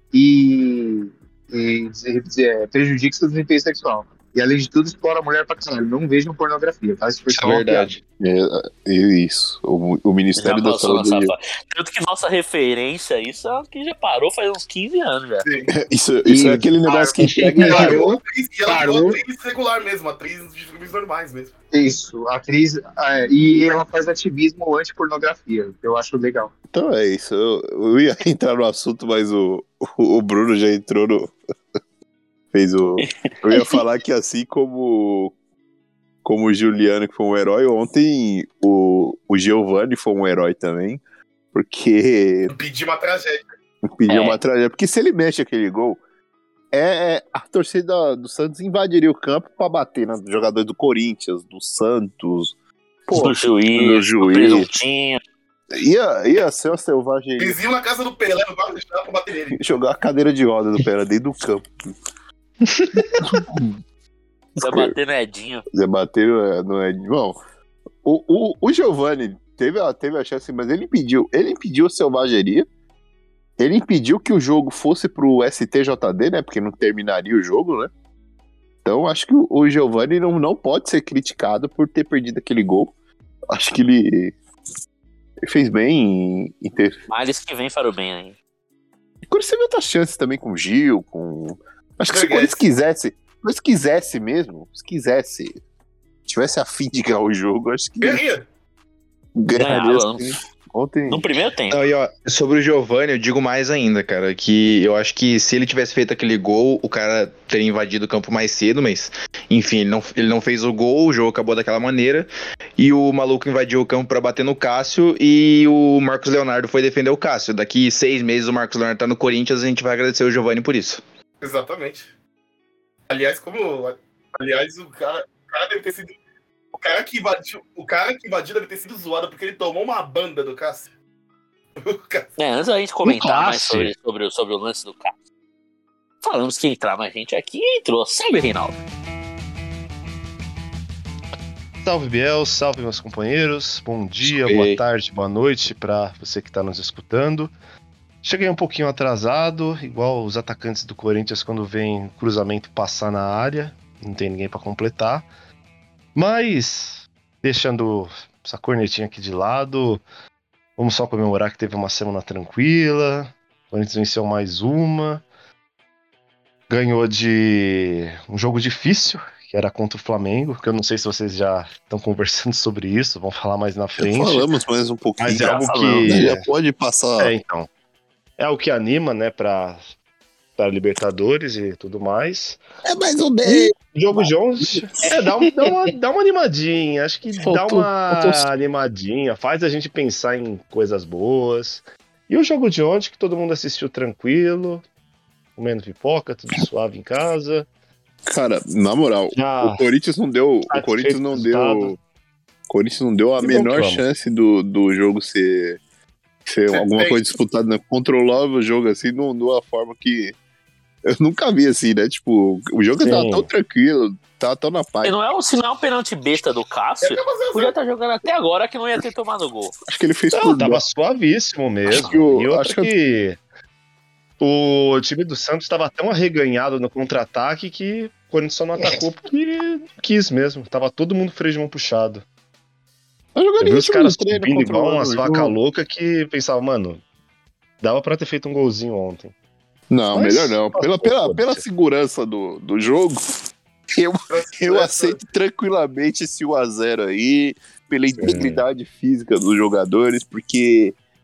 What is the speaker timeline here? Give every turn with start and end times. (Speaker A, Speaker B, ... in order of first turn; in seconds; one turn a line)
Speaker A: 0.1-7.9
Speaker B: 7.3-8.0
Speaker C: 8.2-11.3
Speaker D: 10.4-15.5
Speaker E: 15.4-15.7
Speaker C: 15.7-18.0
Speaker A: 16.3-19.2
Speaker B: 17.3-17.8
Speaker E: 17.7-21.5
Speaker A: 21.7-26.5
Speaker C: 26.7-31.3
Speaker C: 32.5-35.3
Speaker D: 33.0-33.8
Speaker C: 36.2-41.0
Speaker C: 41.5-42.5
Speaker E: 42.5-43.5
Speaker C: 43.8-46.0
Speaker D: 44.1-44.4
Speaker C: 46.7-52.5
Speaker C: 53.1-54.7
Speaker D: 53.1-55.2
Speaker C: 55.7-57.6
Speaker E: 57.4-59.6
Speaker C: 59.5-61.7
Speaker B: 62.6-63.4
Speaker C: 63.2-63.6
Speaker C: 64.6-65.0
Speaker D: 64.6-65.7
Speaker C: 65.7-67.4
Speaker C: 68.0-72.7
Speaker C: 73.6-77.9
Speaker C: 78.8-82.9
Speaker C: 83.5-84.4
Speaker C: 85.4-87.0
Speaker D: 87.1-88.4
Speaker C: 89.3-95.6
Speaker E: 92.1-92.6
Speaker C: 96.3-98.2
Speaker E: 98.0-98.5
Speaker C: 99.4-101.3
Speaker D: 99.6-100.3
Speaker D: 101.1-101.8
Speaker B: 101.7-121.0
Speaker E: 121.4-122.1
Speaker E: 123.1-126.2
Speaker E: 126.8-130.9
Speaker E: 131.8-132.3
Speaker D: 132.4-135.1
Speaker F: 133.1-133.8
Speaker D: 136.2-138.8
Speaker F: 141.8-147.5
Speaker B: 144.2-144.8
Speaker F: 148.2-155.3
Speaker F: 156.2-160.0
Speaker F: 160.8-165.2
Speaker F: 166.7-174.5
Speaker C: 174.0-177.3
Speaker F: 175.2-176.5
Speaker D: 175.4-176.2
Speaker F: 177.2-177.7
Speaker F: 178.4-179.9
Speaker F: 180.6-182.6
Speaker C: 182.8-184.8
Speaker F: 183.4-194.8
Speaker C: 187.4-188.4
Speaker F: 195.6-197.7
Speaker C: 198.3-202.0
Speaker F: 199.3-199.9
Speaker F: 200.7-202.0
Speaker C: 202.7-205.8
Speaker F: 203.4-204.0
Speaker C: 206.5-210.3
Speaker E: 206.7-207.2
Speaker C: 211.1-215.2
Speaker F: 213.0-213.5
Speaker D: 215.0-219.8
Speaker E: 217.0-217.7
Speaker C: 219.9-220.8
Speaker F: 220.3-223.4
Speaker C: 221.9-222.9
Speaker F: 224.4-232.2
Speaker C: 233.3-235.5
Speaker F: 233.6-237.0
Speaker F: 237.8-239.3
Speaker C: 239.9-243.2
Speaker F: 240.1-241.6
Speaker C: 243.9-251.0
Speaker E: 244.3-245.2
Speaker F: 248.2-248.6